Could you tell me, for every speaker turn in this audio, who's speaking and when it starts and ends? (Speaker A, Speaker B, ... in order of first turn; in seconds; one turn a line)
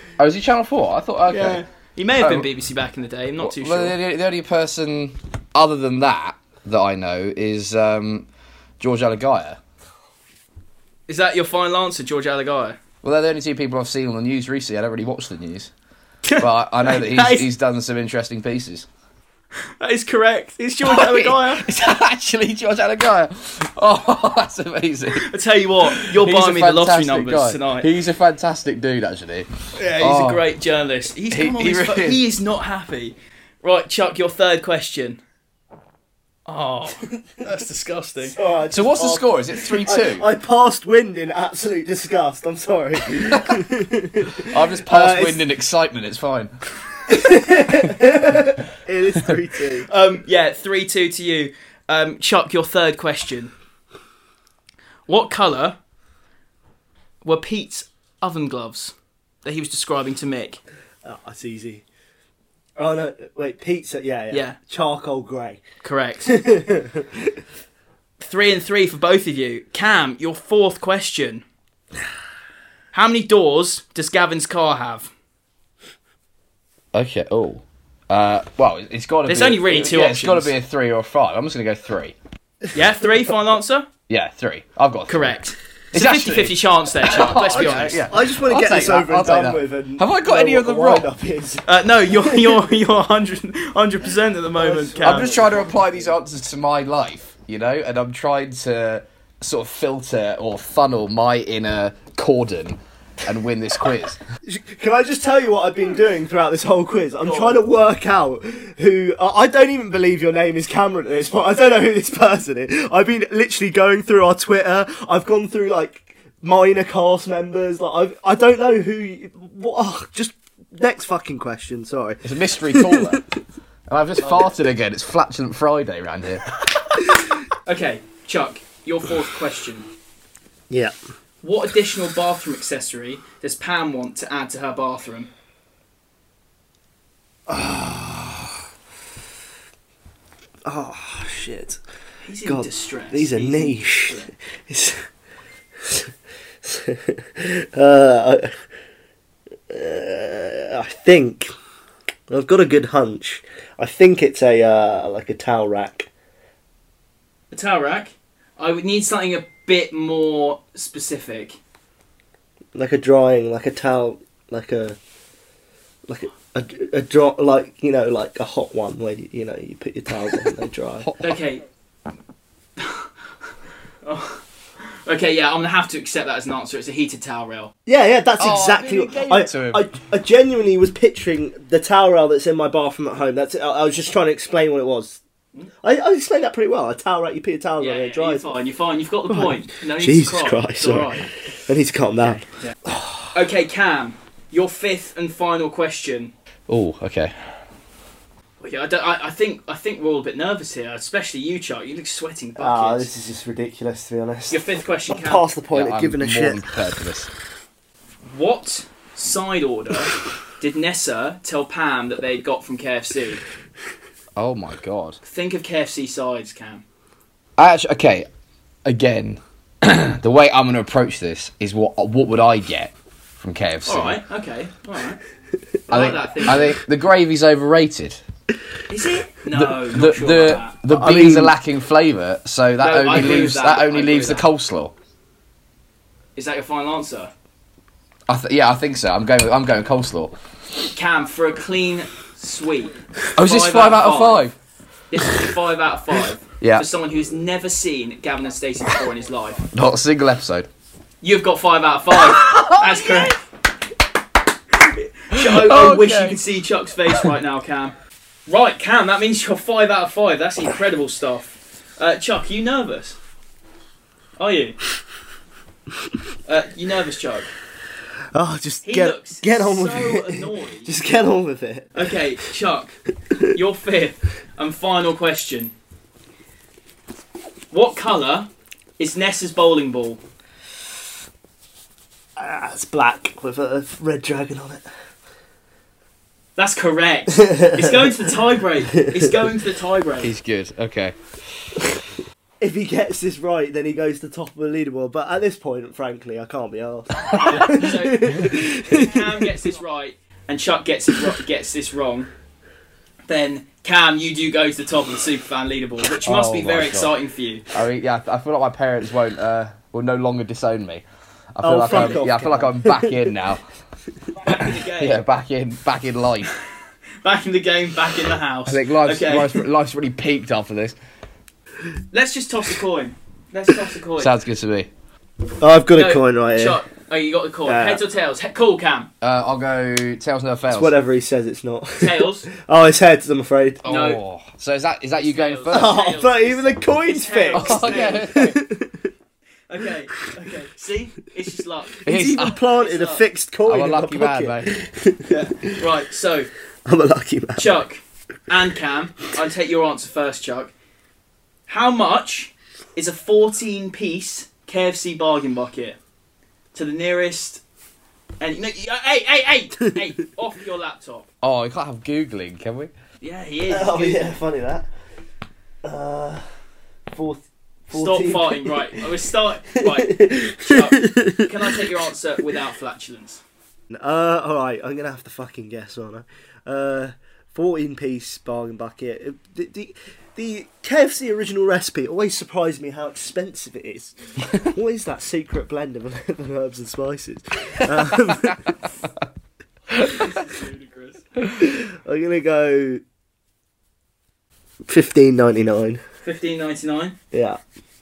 Speaker A: 0.2-1.6
Speaker B: 1.3-4.0
Speaker A: 2.2-2.5
Speaker A: 3.4-8.3
Speaker A: 8.8-9.6
Speaker B: 11.1-12.8
Speaker A: 13.0-15.7
Speaker B: 16.2-17.5
Speaker A: 16.4-18.9
Speaker B: 19.8-21.7
Speaker A: 20.8-25.3
Speaker B: 25.1-27.9
Speaker A: 25.9-30.4
Speaker B: 29.8-35.2
Speaker A: 31.3-32.2
Speaker B: 36.5-38.4
Speaker C: 38.2-45.4
Speaker A: 38.7-40.3
Speaker A: 43.1-43.5
Speaker A: 44.4-46.5
Speaker C: 47.1-49.9
Speaker A: 47.3-48.2
Speaker B: 49.9-53.5
Speaker B: 55.1-55.8
Speaker B: 57.2-60.6
Speaker C: 61.0-61.8
Speaker C: 62.8-65.6
Speaker B: 64.3-64.6
Speaker B: 65.8-66.4
Speaker C: 66.2-67.3
Speaker B: 68.2-71.4
Speaker B: 72.9-75.1
Speaker A: 76.9-82.2
Speaker B: 79.3-80.5
Speaker B: 82.7-83.9
Speaker A: 84.1-85.4
Speaker B: 85.1-88.1
Speaker A: 85.9-91.1
Speaker C: 87.7-92.5
Speaker B: 91.7-95.3
Speaker C: 94.5-96.1
Speaker A: 95.0-104.2
Speaker C: 104.5-123.2
Speaker B: 107.2-107.6
Speaker A: 122.2-123.3
Speaker A: 123.9-126.5
Speaker B: 124.2-124.5
Speaker B: 127.7-129.9
Speaker B: 131.4-135.3
Speaker C: 137.5-138.5
Speaker C: 140.7-141.8
Speaker B: 142.2-144.3
Speaker C: 142.4-145.1
Speaker C: 146.6-148.5
Speaker C: 149.7-151.5
Speaker C: 152.3-156.1
Speaker B: 157.5-161.6
Speaker C: 162.8-165.0
Speaker C: 166.1-171.1
Speaker A: 171.0-171.3
Speaker B: 171.2-171.6
Speaker B: 172.8-173.1
Speaker B: 174.0-177.7
Speaker C: 177.9-185.2
Speaker A: 178.4-179.9
Speaker C: 185.8-188.5
Speaker B: 187.8-191.3
Speaker C: 189.3-193.3
Speaker B: 193.3-196.3
Speaker A: 196.7-197.3
Speaker B: 198.6-203.1
Speaker C: 202.6-206.7
Speaker B: 204.5-205.4
Speaker A: 205.7-207.3
Speaker B: 208.2-213.4
Speaker A: 214.4-215.2
Speaker B: 215.2-216.8
Speaker A: 217.6-218.3
Speaker A: 218.8-224.2
Speaker B: 223.9-225.2
Speaker B: 225.9-226.8
Speaker A: 225.9-228.2
Speaker B: 228.9-230.8
Speaker A: 229.5-234.9
Speaker C: 230.9-231.6
Speaker B: 232.8-234.5
Speaker B: 236.4-237.3
Speaker A: 238.3-240.3
Speaker B: 240.9-244.5
Speaker A: 243.3-244.6
Speaker B: 245.1-249.7
Speaker A: 246.6-246.9
Speaker A: 249.7-250.7
Speaker B: 251.2-253.4
Speaker A: 252.2-253.4
Speaker B: 254.7-257.9
Speaker A: 255.3-256.4
Speaker B: 258.5-263.2
Speaker B: 264.4-264.8
Speaker B: 266.5-267.5
Speaker C: 268.3-272.0
Speaker B: 268.9-270.9
Speaker B: 271.9-273.0
Speaker B: 273.5-275.7
Speaker B: 277.7-280.2
Speaker C: 282.4-284.9
Speaker B: 286.6-290.3
Speaker C: 287.4-288.1
Speaker A: 290.2-291.2
Speaker C: 292.6-299.3
Speaker B: 297.4-302.3
Speaker B: 303.3-307.6
Speaker A: 306.2-307.1
Speaker A: 307.7-311.0
Speaker A: 311.6-313.6
Speaker C: 311.6-313.3
Speaker B: 311.9-312.2
Speaker B: 314.4-315.2
Speaker A: 314.5-316.5
Speaker B: 317.2-319.6
Speaker A: 318.7-321.0
Speaker B: 322.1-324.3
Speaker A: 324.2-324.9
Speaker C: 325.6-326.8
Speaker B: 325.9-329.1
Speaker C: 327.7-328.0
Speaker A: 329.2-331.0
Speaker C: 330.7-333.8
Speaker B: 332.0-332.5
Speaker B: 333.8-334.2
Speaker A: 333.8-335.9
Speaker B: 335.2-338.5
Speaker C: 335.7-339.1
Speaker A: 337.5-338.6
Speaker B: 339.7-343.2
Speaker C: 342.0-345.8
Speaker A: 342.1-342.6
Speaker A: 343.7-344.7
Speaker B: 345.3-346.5
Speaker C: 346.9-347.7
Speaker B: 347.6-350.7
Speaker B: 351.7-356.0
Speaker B: 356.7-357.6
Speaker B: 358.4-361.3
Speaker A: 361.4-362.9
Speaker B: 363.2-364.4
Speaker C: 363.7-364.9
Speaker C: 365.8-366.4
Speaker C: 367.1-368.8
Speaker B: 367.9-373.4
Speaker C: 369.7-371.5
Speaker C: 373.9-388.7
Speaker B: 390.0-391.2
Speaker C: 391.6-393.0
Speaker C: 394.9-396.0
Speaker B: 396.2-397.2
Speaker C: 397.3-397.6